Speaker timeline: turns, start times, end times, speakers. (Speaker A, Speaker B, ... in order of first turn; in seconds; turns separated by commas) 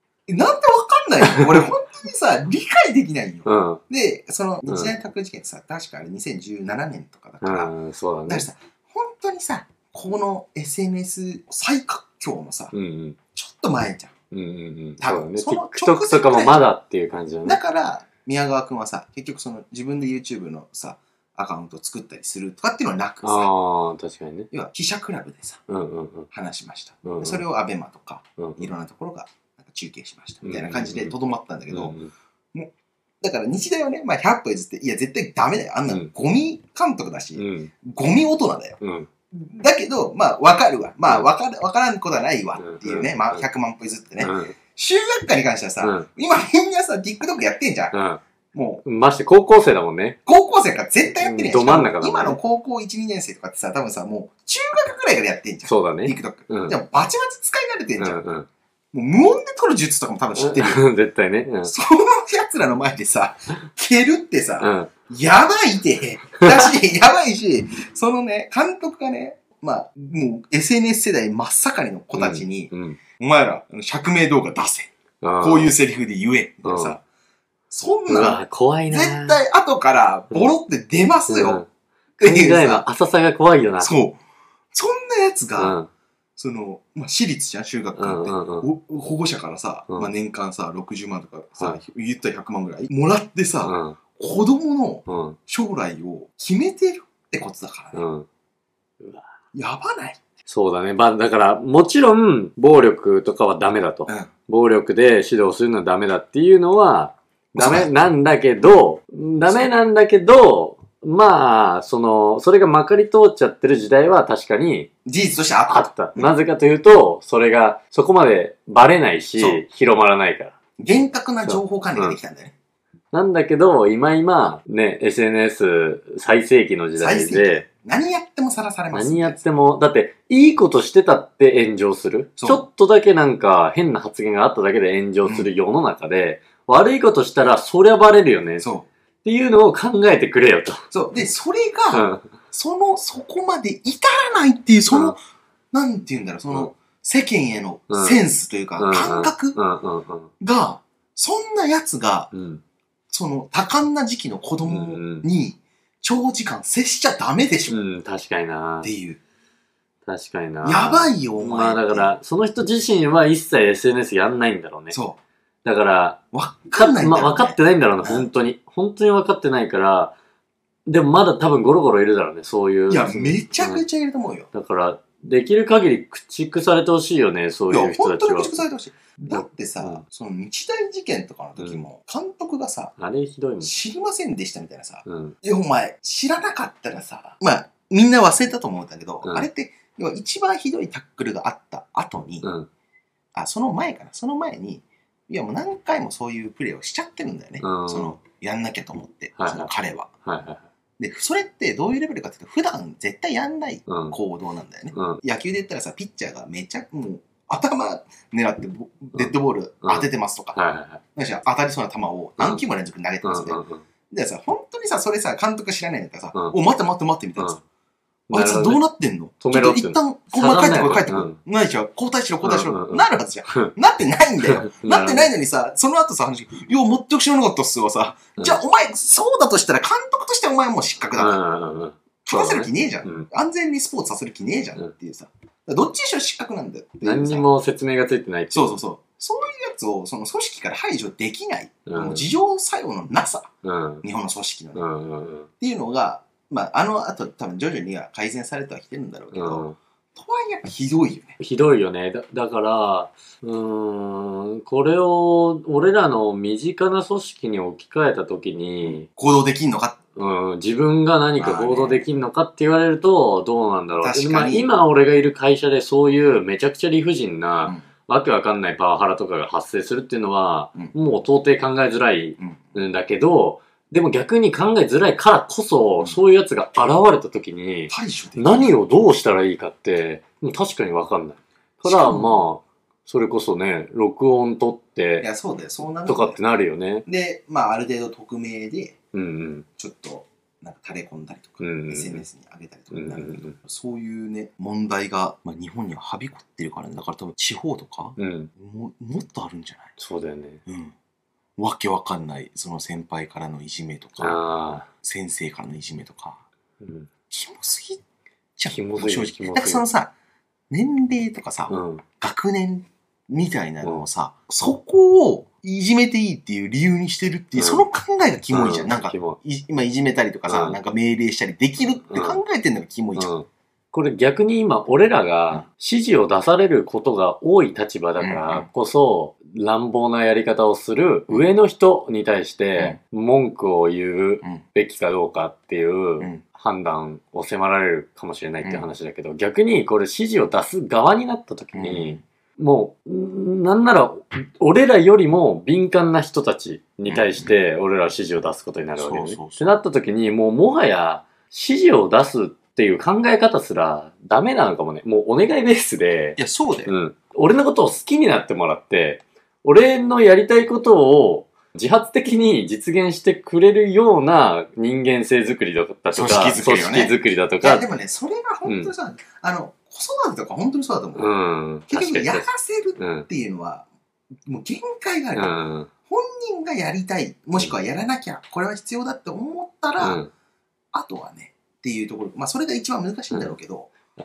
Speaker A: 0.3-7.7, Speaker B: 1.2-1.7, Speaker B: 3.5-3.8, Speaker B: 4.7-4.9, Speaker B: 7.4-8.5, Speaker A: 8.3-12.7, Speaker B: 12.7-13.2, Speaker A: 13.3-14.1, Speaker B: 14.3-17.6, Speaker A: 15.0-16.7, Speaker A: 17.4-23.5, Speaker B: 23.2-24.5, Speaker A: 24.5-25.6, Speaker B: 25.7-26.3, Speaker A: 26.3-32.0, Speaker B: 27.1-27.4, Speaker B: 28.4-28.7, Speaker B: 30.4-31.1, Speaker B: 31.7-32.1, Speaker A: 33.2-38.8, Speaker B: 35.9-36.1, Speaker B: 37.4-37.7, Speaker B: 38.8-39.1, Speaker A: 39.3-48.0, Speaker B: 42.6-43.4, Speaker B: 44.2-44.6, Speaker B: 45.8-46.1, Speaker B: 47.9-48.2, Speaker A: 48.5-48.8, Speaker B: 48.9-50.2, Speaker A: 50.3-58.2, Speaker B: 51.2-52.4, Speaker B: 55.6-56.8, Speaker B: 58.0-58.5, Speaker A: 58.9-60.8, Speaker B: 60.4-61.7, Speaker A: 61.6-77.0, Speaker B: 64.6-64.9, Speaker B: 72.1-73.0, Speaker B: 75.2-75.7, Speaker B: 76.6-77.0, Speaker A: 77.7-81.6, Speaker B: 78.1-79.4, Speaker B: 81.3-81.7, Speaker A: 82.2-82.8, Speaker B: 82.2-83.9, Speaker A: 83.8-84.2, Speaker A: 84.7-85.8, Speaker B: 85.6-85.9, Speaker A: 86.4-98.0, Speaker B: 88.0-88.7, Speaker B: 93.6-94.0, Speaker B: 95.1-95.4, Speaker B: 97.9-98.3, Speaker B: 99.0-99.3, Speaker A: 99.5-100.2, Speaker B: 100.5-114.9, Speaker A: 107.6-107.9, Speaker A: 115.1-116.3, Speaker B: 115.7-120.5, Speaker A: 119.4-119.6, Speaker A: 120.8-122.5, Speaker B: 121.4-122.2, Speaker B: 123.1-127.6, Speaker A: 127.0-129.4, Speaker B: 128.9-138.7, Speaker A: 132.4-132.7, Speaker A: 135.2-135.5, Speaker A: 138.6-138.9, Speaker B: 139.2-140.9, Speaker A: 140.9-145.2, Speaker B: 141.9-142.3, Speaker B: 144.9-145.2, Speaker A: 145.7-149.6, Speaker B: 147.9-148.2, Speaker B: 148.8-150.3, Speaker A: 150.4-152.3, Speaker B: 152.3-152.6, Speaker A: 153.1-157.8, Speaker B: 154.7-155.3, Speaker B: 157.7-158.9, Speaker A: 158.8-159.2, Speaker B: 160.1-165.0, Speaker A: 160.6-162.2, Speaker A: 164.9-165.2, Speaker B: 165.7-166.2, Speaker A: 166.3-168.3, Speaker B: 166.7-170.1, Speaker B: 170.9-173.8, Speaker A: 172.9-174.5, Speaker B: 174.5-178.6, Speaker A: 177.7-182.9, Speaker B: 179.3-180.0, Speaker B: 181.6-181.8, Speaker B: 183.0-183.7, Speaker A: 183.6-192.5, Speaker B: 185.1-185.4, Speaker B: 192.4-192.7, Speaker A: 193.3-200.1, Speaker B: 197.6-198.2, Speaker B: 199.4-199.7, Speaker B: 200.2-200.6, Speaker A: 201.0-210.6, Speaker B: 203.9-204.2, Speaker B: 204.9-205.2, Speaker B: 209.1-211.0, Speaker A: 211.2-217.6, Speaker B: 213.2-213.8, Speaker B: 218.3-218.8, Speaker A: 218.3-231.4, Speaker B: 219.4-221.4, Speaker B: 222.4-223.7, Speaker B: 224.4-225.3, Speaker B: 231.2-233.3, Speaker A: 232.3-237.5, Speaker B: 237.0-238.8, Speaker A: 238.5-243.5, Speaker B: 241.9-242.3, Speaker B: 243.6-244.0, Speaker A: 244.0-244.9, Speaker B: 244.8-245.5, Speaker A: 245.6-251.4, Speaker B: 249.3-249.8, Speaker B: 251.4-259.1, Speaker A: 258.9-260.0, Speaker B: 260.2-285.3, Speaker A: 261.4-262.0, Speaker A: 264.0-264.7, Speaker A: 277.9-279.1, Speaker A: 281.8-282.5, Speaker A: 285.2-286.4, Speaker B: 286.1-287.1, Speaker A: 287.1-289.0, Speaker B: 289.1-289.7, Speaker A: 289.8-299.9, Speaker B: 291.6-292.2, Speaker B: 292.9-293.6, Speaker B: 298.2-298.5, Speaker B: 300.0-300.6, Speaker A: 300.7-300.9, Speaker A: 301.6-304.4, Speaker B: 304.2-304.9, Speaker A: 305.0-306.4, Speaker B: 306.8-307.1, Speaker A: 307.3-308.0, Speaker A: 308.6-310.1, Speaker B: 308.7-309.8, Speaker A: 310.7-323.3, Speaker B: 311.7-312.0, Speaker B: 317.6-317.9, Speaker B: 318.5-319.4, Speaker B: 320.5-320.8, Speaker B: 322.1-322.4, Speaker B: 323.2-367.8, Speaker A: 328.2-328.7, Speaker A: 338.6-338.9, Speaker A: 341.7-342.2, Speaker A: 347.1-347.5, Speaker A: 349.0-349.8, Speaker A: 356.4-356.9, Speaker A: 366.1-371.3, Speaker B: 368.6-368.9, Speaker B: 371.1-372.5, Speaker A: 371.9-373.9, Speaker B: 373.0-373.3, Speaker A: 374.5-380.2, Speaker B: 375.4-375.9, Speaker B: 380.0-380.3, Speaker A: 380.9-383.9